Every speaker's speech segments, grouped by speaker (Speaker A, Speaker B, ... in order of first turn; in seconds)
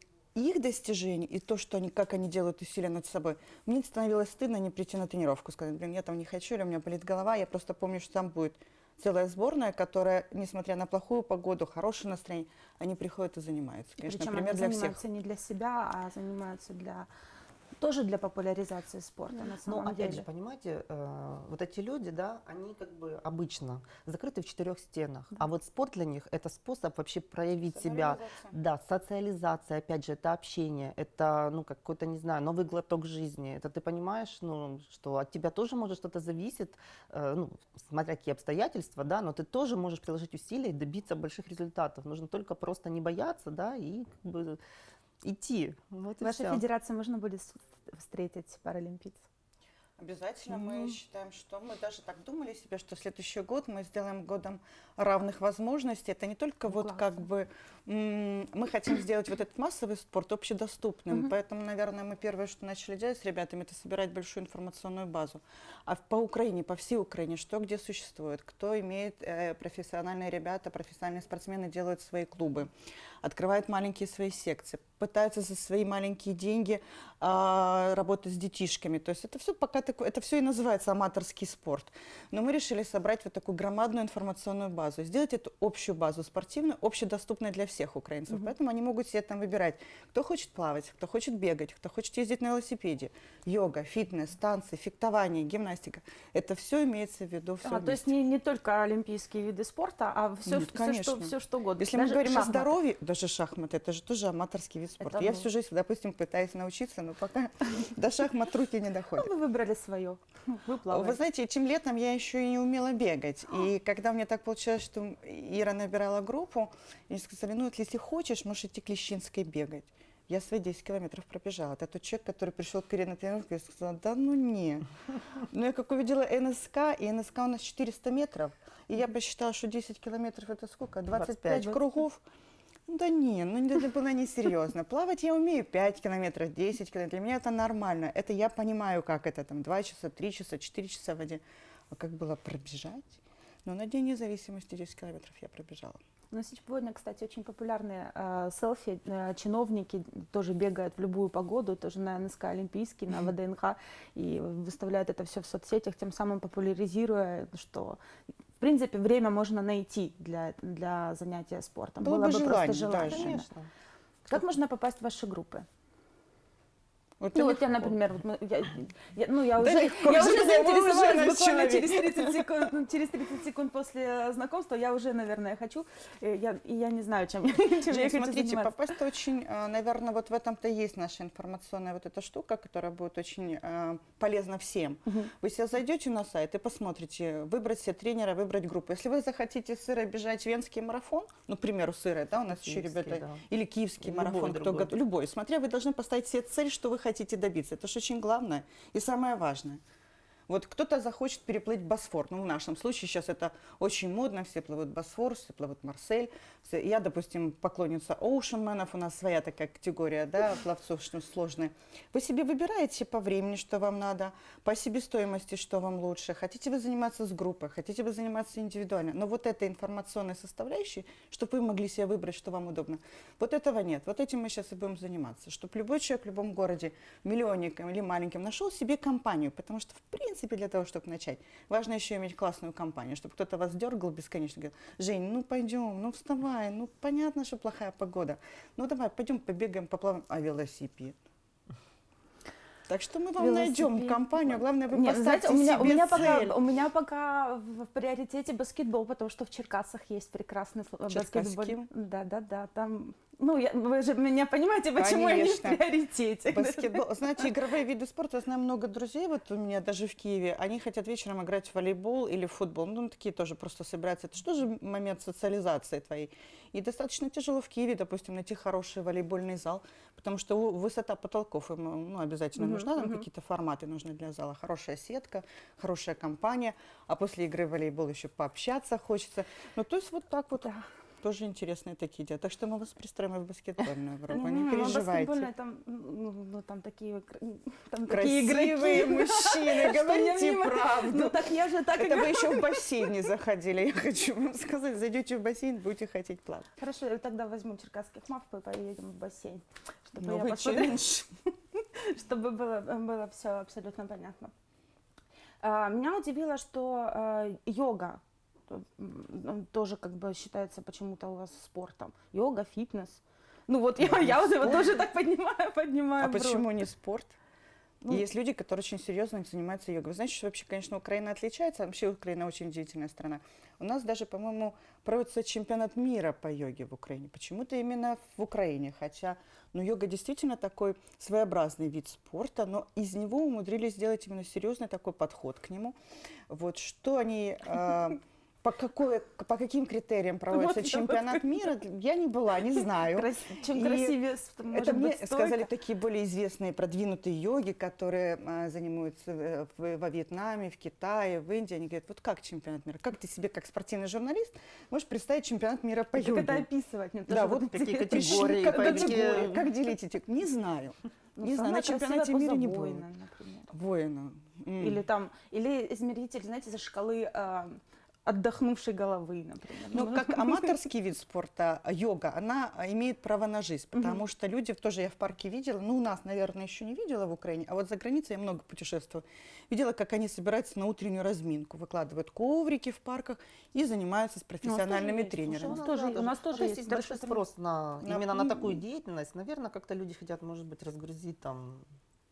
Speaker A: 0.3-15.0, 27.7-28.6, 50.0-72.7, 73.2-98.1, 100.5-109.3, 110.9-124.9, 125.5-132.2, 132.9-146.0, 162.0-163.4, 167.2-167.9, 169.6-172.7, 177.9-199.8, 200.5-241.2, 242.9-246.6, 251.1-251.9, 255.0-255.8, 256.5-285.5, 288.1-296.7, 300.2-301.3, 314.0-315.0, 316.2-317.4, 318.1-336.0, 336.5-356.7, 357.3-363.1, 363.7-365.0, 369.9-385.9, 388.0-388.8
Speaker B: 14.0-17.1, 17.8-20.3, 46.2-49.2, 50.5-51.0, 56.7-57.2, 97.6-102.8, 105.0-105.5, 109.2-111.2, 146.3-158.0, 158.6-163.5, 164.3-165.7, 167.3-178.9, 243.4-257.5, 272.6-273.3, 284.3-293.1, 296.8-301.1, 301.8-304.5, 305.6-316.8, 340.5-341.7, 342.8-345.7, 356.1-359.5, 361.4-363.7, 364.8-370.7, 373.9-374.2, 384.6-387.4
Speaker C: 19.4-44.6, 45.2-46.6, 131.1-131.8, 163.0-163.7, 192.5-193.4, 194.0-194.9, 357.3-359.7, 385.4-391.9